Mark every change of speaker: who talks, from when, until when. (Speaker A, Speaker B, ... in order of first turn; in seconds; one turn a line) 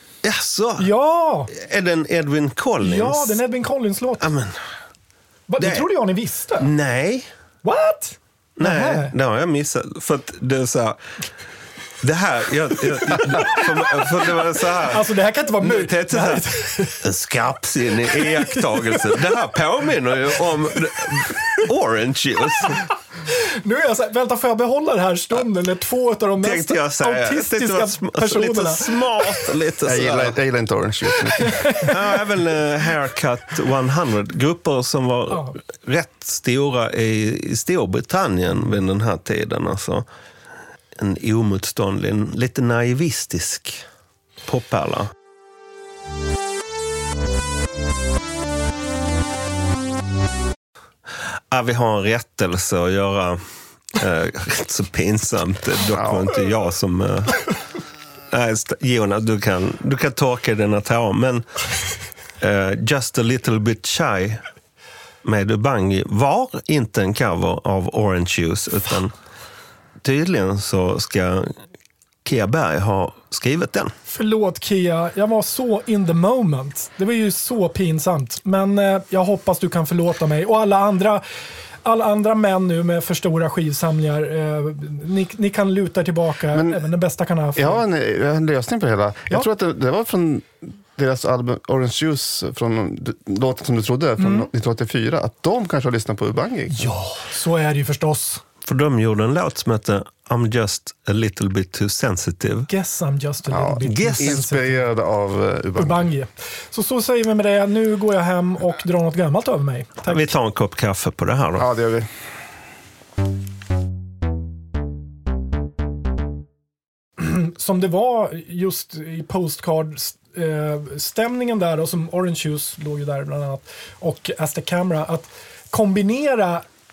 Speaker A: 0.2-0.9
Speaker B: 0.8-1.5
Speaker A: 1.5-3.4
Speaker B: 2.8-4.3
Speaker A: 4.2-4.6
Speaker B: 5.5-6.7
Speaker A: 5.6-5.9
Speaker A: 6.6-7.3
Speaker B: 7.6-9.1
Speaker A: 8.6-11.0
Speaker A: 12.0-22.9
Speaker B: 13.1-17.0
Speaker B: 18.1-19.4
Speaker B: 22.6-29.5
Speaker A: 26.4-30.4
Speaker C: 29.8-31.9
Speaker B: 31.4-32.0
Speaker A: 31.8-40.0
Speaker B: 35.3-35.6
Speaker A: 41.0-43.8
Speaker A: 44.5-45.1
Speaker A: 51.5-53.4
Speaker A: 53.9-57.4
Speaker C: 55.9-56.3
Speaker A: 58.3-61.5
Speaker A: 62.4-64.4
Speaker A: 65.2-69.1
Speaker A: 70.0-71.5
Speaker A: 72.2-73.9
Speaker B: 74.1-81.2
Speaker B: 81.8-87.8
Speaker C: 86.5-86.9
Speaker C: 87.5-96.9
Speaker B: 94.2-94.5
Speaker B: 96.7-98.4
Speaker A: 98.7-102.7
Speaker B: 102.7-104.8
Speaker C: 103.5-106.1
Speaker A: 103.8-104.3
Speaker B: 105.8-110.3
Speaker A: 110.0-111.7
Speaker C: 111.6-112.1
Speaker B: 117.2-126.6